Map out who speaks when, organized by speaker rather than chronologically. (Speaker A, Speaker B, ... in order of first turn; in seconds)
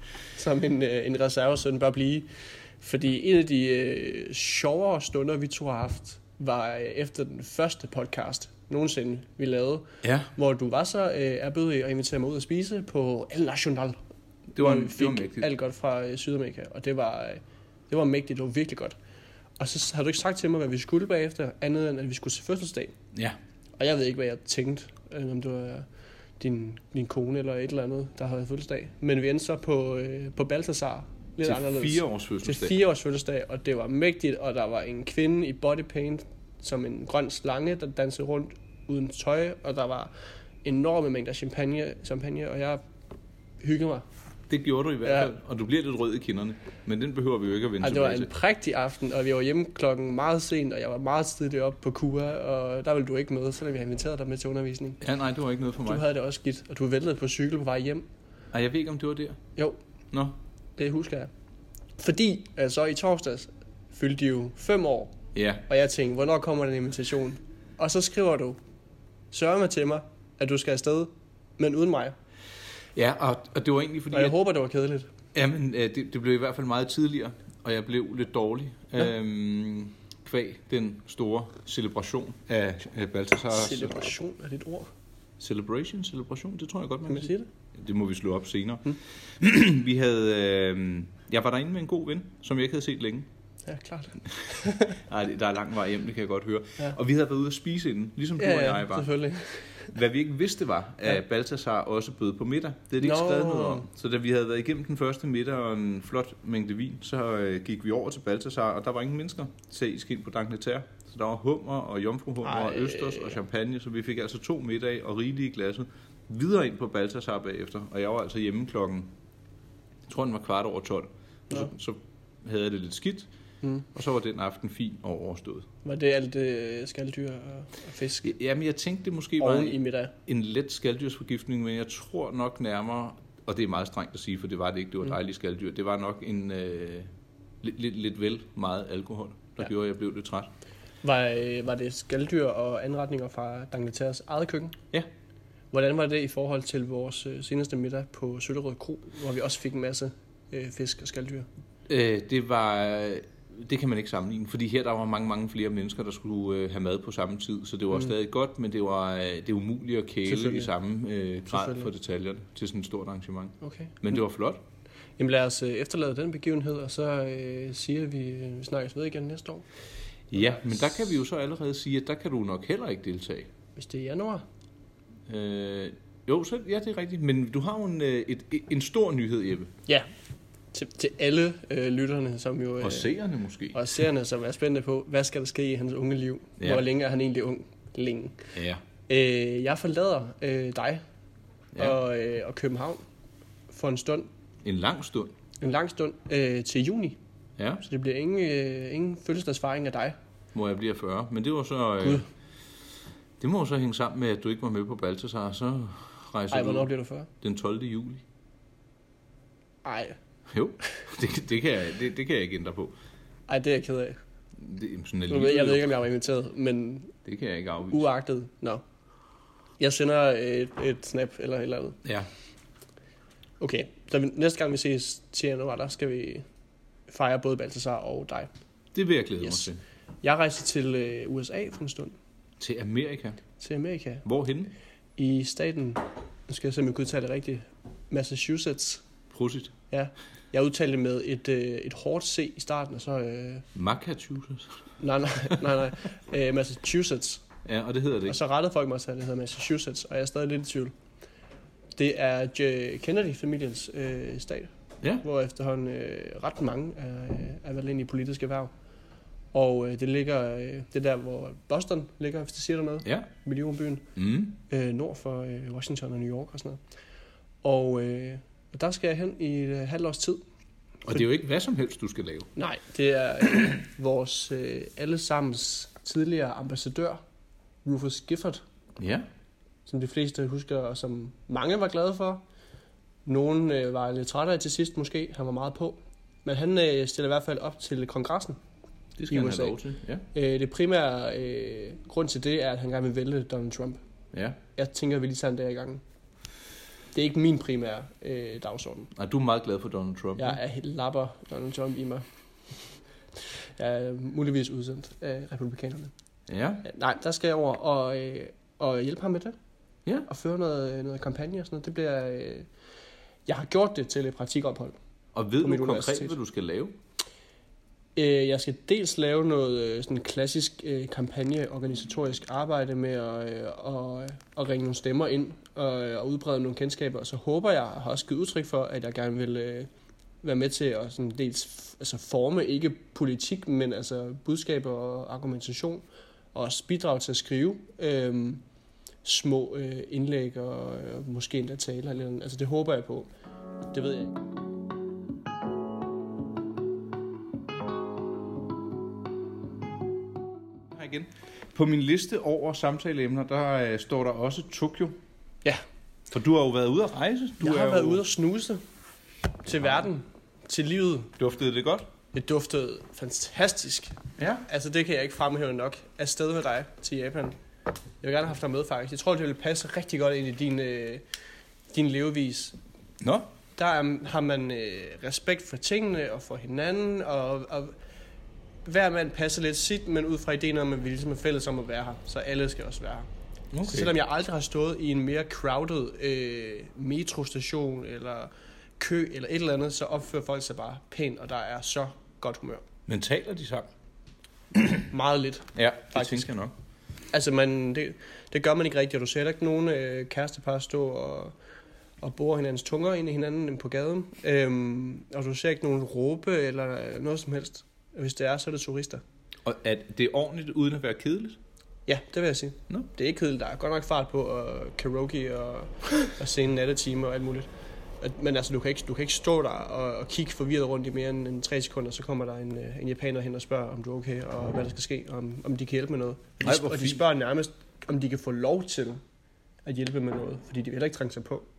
Speaker A: 0.3-14.0, 14.6-18.9, 19.6-22.9, 23.8-25.9, 26.4-40.1, 40.6-42.8, 43.6-44.0, 45.0-45.3, 47.8-55.0, 55.9-58.0, 60.8-61.3, 62.0-65.2, 65.7-68.6, 69.3-72.2, 74.1-75.1, 83.5-84.9, 87.1-87.5, 93.7-95.0, 98.4-99.9, 103.0-103.8, 112.4-113.3, 125.8-128.3, 129.4-130.1, 141.0-144.8, 145.7-151.5, 160.2-160.7, 161.5-161.9, 163.6-163.9, 165.2-169.7, 173.8-174.4, 180.7-183.2, 183.7-188.5, 189.1-191.0, 191.8-193.0, 193.7-194.3, 195.6-197.2, 197.8-200.2, 206.5-207.3, 209.8-210.2, 213.5-214.2, 215.3-217.1, 217.9-218.8, 219.8-222.0, 223.6-226.4, 227.1-228.5, 230.2-232.2, 233.6-234.2, 235.2-239.0, 239.9-243.7, 245.0-247.4, 248.2-250.9, 251.9-258.7, 259.5-264.1, 264.7-266.8, 267.6-270.4, 272.6-277.2, 277.8-278.6, 279.9-282.4, 283.2-288.6, 289.3-289.8, 290.3-294.0, 294.7-296.0, 297.1-299.1, 300.4-302.2, 303.4-306.1, 306.8-309.5, 310.3-312.7, 313.4-315.0, 315.6-316.4, 318.1-329.9, 330.4-338.6, 339.2-343.3, 343.9-344.4, 357.6-358.8, 359.6-361.3, 362.3-367.6, 368.2-371.2, 371.9-372.8, 373.8-377.9, 378.8-383.3, 383.8-392.8, 395.1-396.5, 397.3-401.5, 402.2-409.2, 412.1-429.2, 429.8-431.7
Speaker B: 10.0-10.3, 14.5-15.5, 31.4-32.8, 44.5-48.3, 55.0-56.0, 58.5-59.4, 65.3-65.6, 73.0-74.3, 75.3-84.0, 85.4-93.3, 94.3-99.1, 99.7-119.1, 120.1-123.3, 123.9-125.7, 128.2-137.1, 137.6-140.5, 151.9-164.6, 170.3-173.5, 175.3-179.7, 182.8-183.8, 188.5-188.8, 191.7-192.0, 194.6-195.3, 197.6-197.8, 200.5-202.2, 203.4-208.2, 210.5-212.9, 214.6-215.9, 217.2-218.1, 222.0-222.3, 228.9-229.8, 232.6-233.4, 234.2-234.7, 239.3-239.7, 243.7-244.9, 247.6-248.4, 264.1-264.6, 271.0-272.5, 279.0-279.3, 289.2-290.3, 294.3-294.6, 299.1-300.6, 306.5-306.9, 315.3-316.9, 350.9-355.2, 356.3-358.2, 361.4-362.1, 364.4-364.7, 373.2-373.5, 383.7-384.2, 393.1-393.9, 394.7-395.1, 395.7-396.7, 409.6-411.6, 426.6-427.2